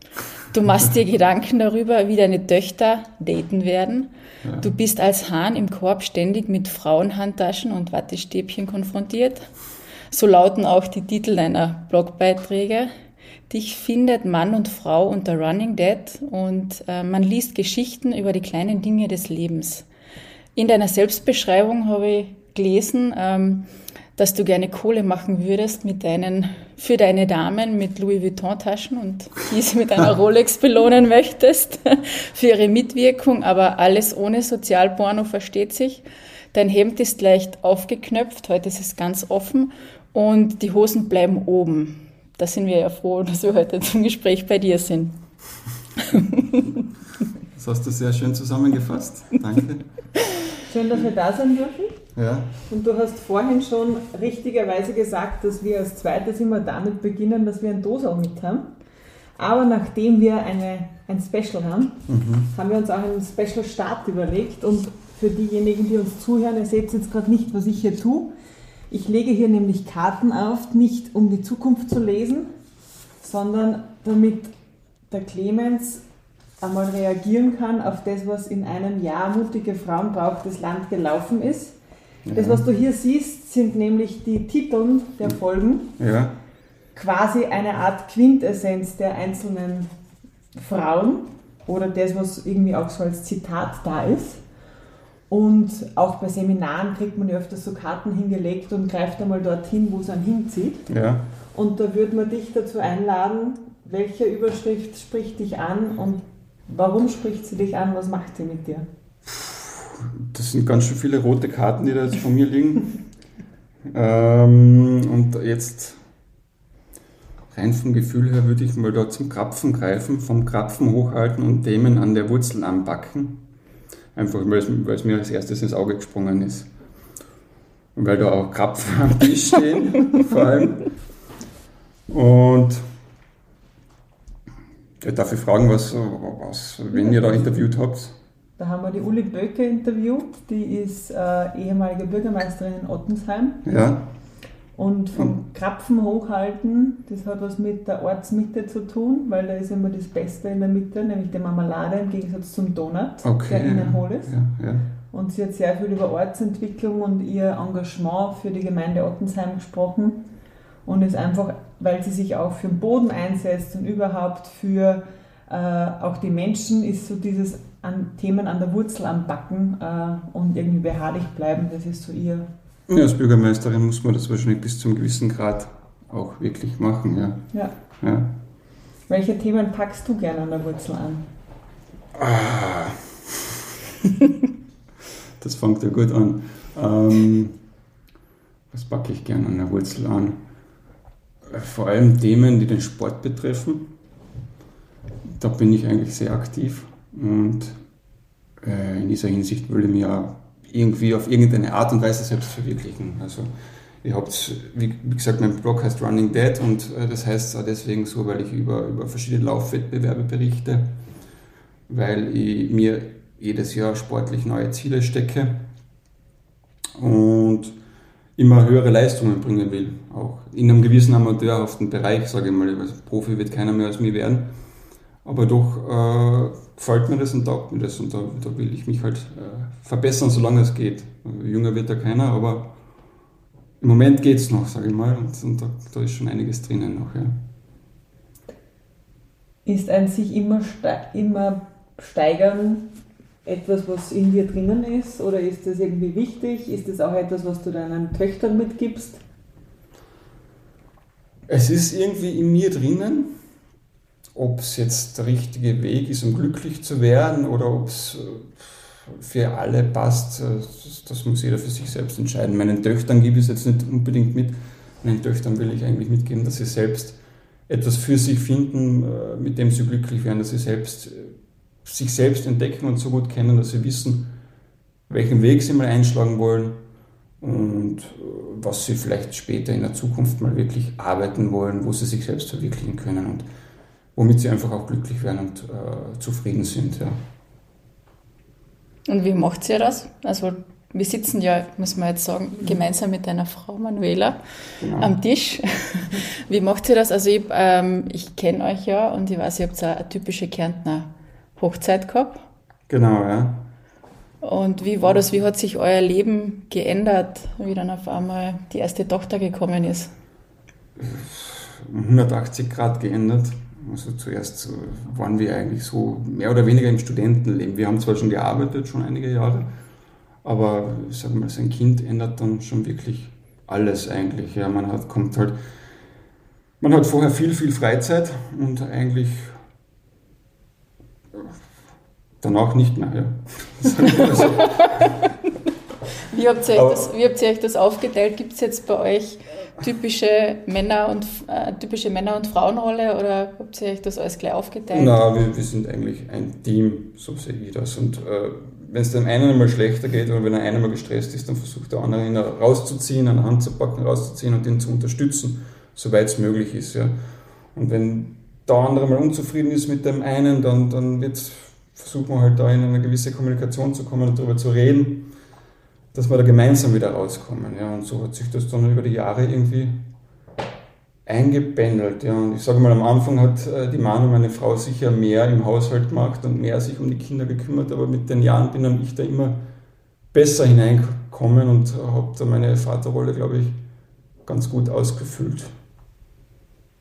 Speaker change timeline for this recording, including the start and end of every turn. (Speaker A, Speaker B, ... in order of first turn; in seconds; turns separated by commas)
Speaker A: 0.5-9.5, Speaker B: 4.4-4.7, Speaker A: 10.1-12.9, Speaker A: 13.5-19.9, Speaker A: 20.6-45.2, Speaker A: 46.1-46.6, Speaker B: 47.5-49.9, Speaker C: 50.7-52.0, Speaker B: 52.1-52.5, Speaker C: 52.7-58.7, Speaker C: 59.4-68.3, Speaker B: 62.1-62.5, Speaker C: 68.9-72.5, Speaker C: 73.2-74.5, Speaker C: 75.1-76.0, Speaker C: 76.6-81.8, Speaker B: 82.3-82.7, Speaker C: 82.3-85.9, Speaker B: 86.0-86.3, Speaker C: 87.0-89.9, Speaker C: 90.5-94.4, Speaker C: 95.3-100.9, Speaker B: 100.9-101.3, Speaker C: 101.5-108.9, Speaker B: 109.3-112.9, Speaker B: 113.9-116.0, Speaker B: 117.5-123.4, Speaker B: 124.2-126.7, Speaker B: 128.0-130.9, Speaker B: 132.1-132.8, Speaker B: 135.0-138.2, Speaker C: 138.6-143.6, Speaker B: 143.7-144.0, Speaker C: 144.8-154.3, Speaker B: 153.2-154.9, Speaker C: 155.1-160.3, Speaker C: 160.8-172.5, Speaker B: 172.9-177.4, Speaker B: 178.0-178.3, Speaker C: 179.1-181.3, Speaker B: 182.2-183.4, Speaker B: 185.4-187.6, Speaker B: 188.7-190.4, Speaker B: 191.5-193.9, Speaker B: 195.4-197.8, Speaker B: 198.6-203.5, Speaker B: 204.0-210.9, Speaker B: 211.9-215.7, Speaker B: 217.0-217.8, Speaker B: 218.4-224.5, Speaker B: 225.2-232.7, Speaker B: 233.8-237.4, Speaker C: 239.7-242.9, Speaker C: 243.4-249.2, Speaker B: 251.5-253.4, Speaker B: 254.3-274.3, Speaker B: 275.1-276.8, Speaker B: 277.4-283.5, Speaker B: 284.1-287.2, Speaker A: 289.1-302.4, Speaker B: 294.8-295.1, Speaker B: 302.9-303.7, Speaker A: 304.4-310.1, Speaker B: 311.0-319.7, Speaker B: 320.4-325.6, Speaker B: 326.8-329.6, Speaker B: 332.4-335.1, Speaker A: 336.3-345.2, Speaker B: 336.7-337.1, Speaker B: 344.9-357.1, Speaker B: 357.8-365.3, Speaker B: 366.1-370.0, Speaker B: 371.3-379.6, Speaker B: 380.3-383.8, Speaker B: 384.5-385.7